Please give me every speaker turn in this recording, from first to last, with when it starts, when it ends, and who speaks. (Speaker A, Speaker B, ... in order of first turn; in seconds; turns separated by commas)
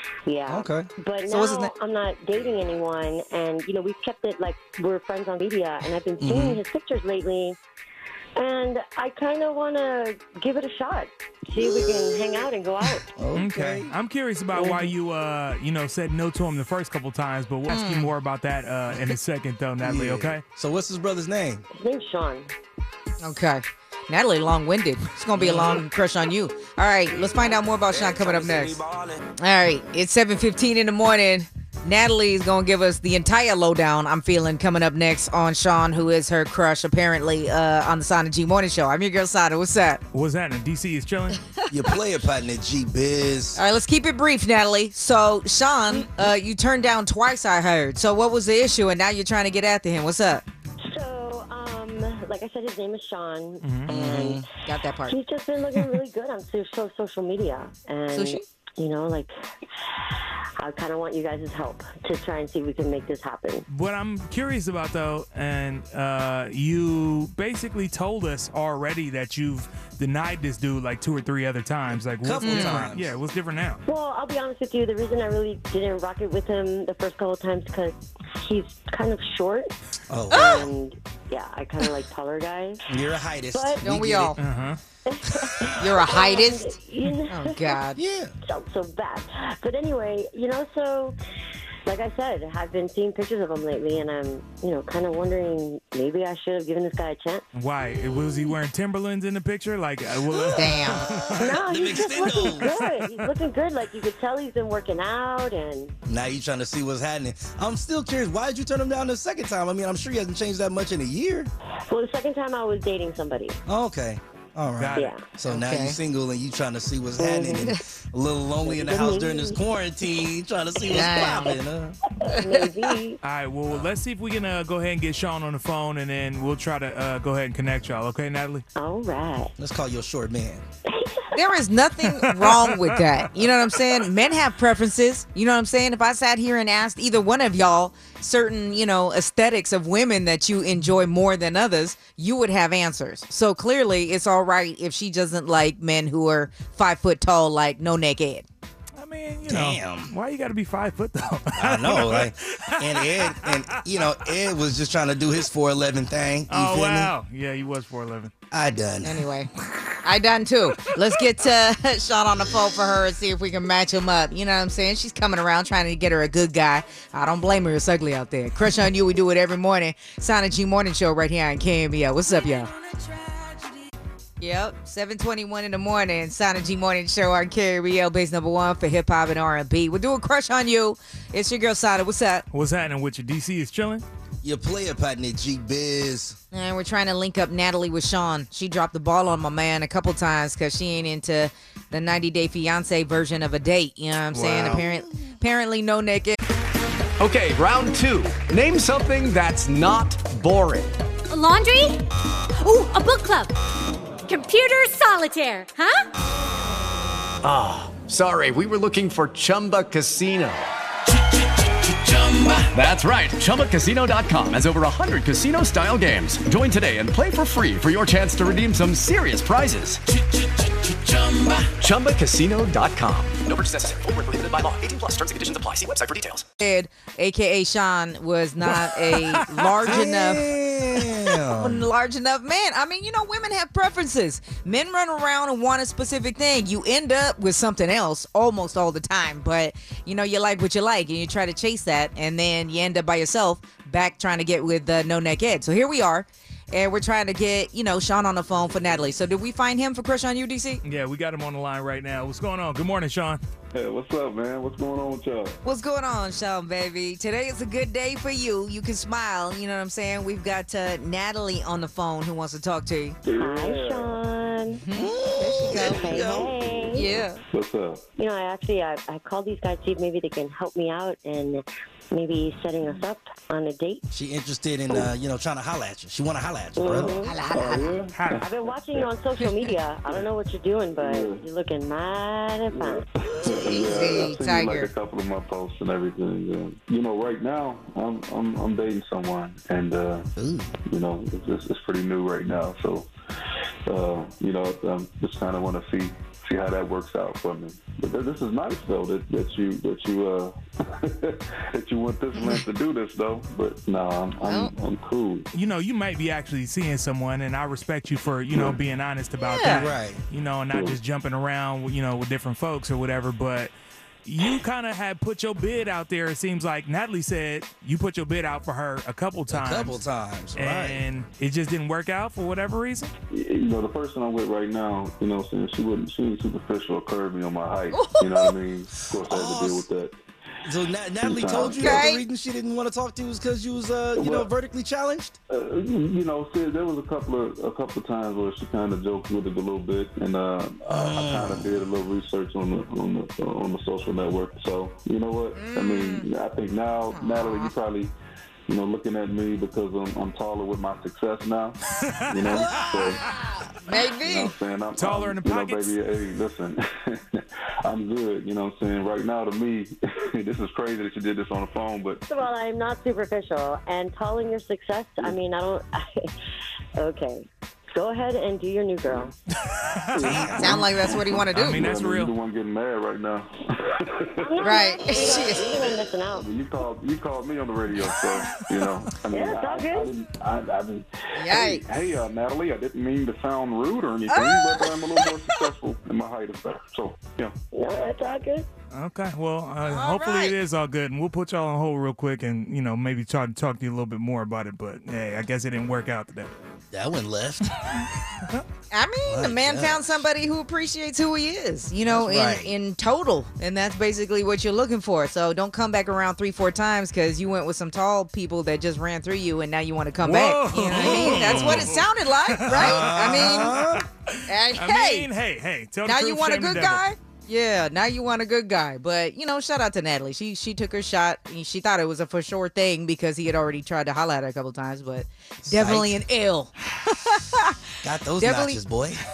Speaker A: 0.2-7.6, Speaker B: 0.5-0.9, Speaker C: 1.3-1.7, Speaker B: 6.2-6.6, Speaker A: 8.3-13.0, Speaker B: 11.6-12.1, Speaker B: 13.2-13.9, Speaker D: 13.3-20.4, Speaker A: 14.5-14.9, Speaker C: 17.7-18.1, Speaker B: 19.8-21.6, Speaker A: 21.7-22.5, Speaker C: 23.2-28.8, Speaker B: 27.9-29.1, Speaker C: 29.4-40.0, Speaker D: 40.1-41.4, Speaker B: 41.7-43.6, Speaker C: 43.5-50.4, Speaker A: 50.8-54.5, Speaker D: 53.6-53.9, Speaker B: 53.9-54.5, Speaker C: 54.6-55.2, Speaker A: 55.1-59.3, Speaker C: 58.1-58.4, Speaker A: 60.6-63.6, Speaker D: 63.7-73.8, Speaker B: 71.9-73.2, Speaker C: 72.4-72.9, Speaker A: 73.8-79.7, Speaker B: 80.1-80.7, Speaker C: 80.3-80.7, Speaker A: 80.4-82.8, Speaker B: 82.9-84.4, Speaker A: 83.5-83.8, Speaker C: 83.8-84.4, Speaker D: 84.3-84.8, Speaker A: 85.0-87.8, Speaker C: 85.8-86.7, Speaker C: 87.3-88.0, Speaker B: 87.9-88.3, Speaker A: 88.5-91.2, Speaker A: 91.8-97.4, Speaker D: 97.5-101.5, Speaker C: 100.5-101.1, Speaker B: 100.5-102.7, Speaker A: 101.3-105.9, Speaker D: 102.6-103.3, Speaker B: 106.1-111.5, Speaker A: 111.9-113.6, Speaker B: 113.7-122.0, Speaker D: 114.8-115.1, Speaker A: 114.9-115.2, Speaker C: 115.5-116.0, Speaker A: 117.2-117.7, Speaker A: 118.6-119.6, Speaker C: 120.8-121.6, Speaker A: 122.2-123.2, Speaker C: 122.3-122.9, Speaker D: 123.2-128.6, Speaker A: 128.8-129.5, Speaker B: 129.6-130.6, Speaker A: 130.9-131.3, Speaker C: 131.3-148.4, Speaker D: 132.1-132.7, Speaker D: 148.9-153.7, Speaker B: 149.5-150.1, Speaker B: 151.5-157.1, Speaker D: 156.5-158.3, Speaker B: 158.5-159.3, Speaker C: 159.0-173.3, Speaker C: 174.4-182.4, Speaker D: 182.5-184.0, Speaker B: 184.4-186.4, Speaker C: 186.5-196.4, Speaker D: 194.3-194.8, Speaker E: 197.2-201.0, Speaker F: 201.3-203.5, Speaker F: 204.2-206.1, Speaker E: 207.4-210.7, Speaker E: 212.2-220.1, Speaker E: 220.9-226.4, Speaker C: 226.6-250.8, Speaker D: 229.1-229.9, Speaker B: 229.8-231.9, Speaker D: 250.8-253.4, Speaker G: 253.7-255.6, Speaker C: 255.6-263.2, Speaker G: 263.2-264.2, Speaker A: 263.3-264.8, Speaker C: 264.7-266.0, Speaker B: 264.9-266.6, Speaker A: 265.7-267.1, Speaker G: 266.1-268.0, Speaker C: 266.9-267.4, Speaker A: 268.2-274.0, Speaker B: 274.1-277.3, Speaker G: 274.9-275.1, Speaker A: 276.8-277.4, Speaker G: 276.9-279.1, Speaker C: 277.2-278.0, Speaker D: 278.1-278.4, Speaker A: 278.4-283.0, Speaker C: 279.4-279.7, Speaker G: 280.9-281.4, Speaker G: 282.7-290.3, Speaker C: 283.4-284.9, Speaker B: 290.4-290.7, Speaker G: 290.8-293.1, Speaker G: 293.9-305.4, Speaker C: 302.3-302.6, Speaker C: 304.4-304.7, Speaker D: 305.5-313.7, Speaker G: 308.5-308.8, Speaker C: 309.4-309.9, Speaker B: 309.7-310.2, Speaker G: 310.7-311.0, Speaker D: 314.2-320.0, Speaker B: 319.5-321.0, Speaker D: 320.5-323.1, Speaker G: 323.3-330.2, Speaker C: 327.9-328.5, Speaker B: 329.1-329.9, Speaker B: 330.6-335.4, Speaker G: 330.7-332.1, Speaker C: 331.8-332.2, Speaker G: 334.1-334.5, Speaker G: 335.5-348.1, Speaker B: 340.9-341.8, Speaker C: 345.5-346.3, Speaker C: 347.1-347.7, Speaker G: 348.7-353.2, Speaker D: 352.0-352.6, Speaker C: 352.5-354.5, Speaker G: 354.2-362.2, Speaker D: 354.9-356.0, Speaker A: 362.3-366.3, Speaker A: 367.0-369.3, Speaker D: 369.7-370.8, Speaker G: 370.1-387.5, Speaker B: 370.2-370.6, Speaker C: 370.5-371.9, Speaker D: 371.5-372.3, Speaker A: 374.4-376.5, Speaker C: 374.6-375.6, Speaker D: 378.5-378.8, Speaker A: 379.3-380.1, Speaker C: 381.4-381.8, Speaker C: 384.3-385.7, Speaker A: 387.7-388.6, Speaker D: 388.9-396.5, Speaker C: 389.8-390.6, Speaker B: 396.9-397.6, Speaker C: 398.9-413.8, Speaker B: 399.2-400.1, Speaker B: 402.1-402.7, Speaker D: 410.2-417.0, Speaker B: 410.9-411.9, Speaker B: 412.7-414.1, Speaker C: 414.5-415.3, Speaker C: 416.0-427.8, Speaker B: 425.6-426.1, Speaker B: 428.0-429.2, Speaker C: 428.4-428.8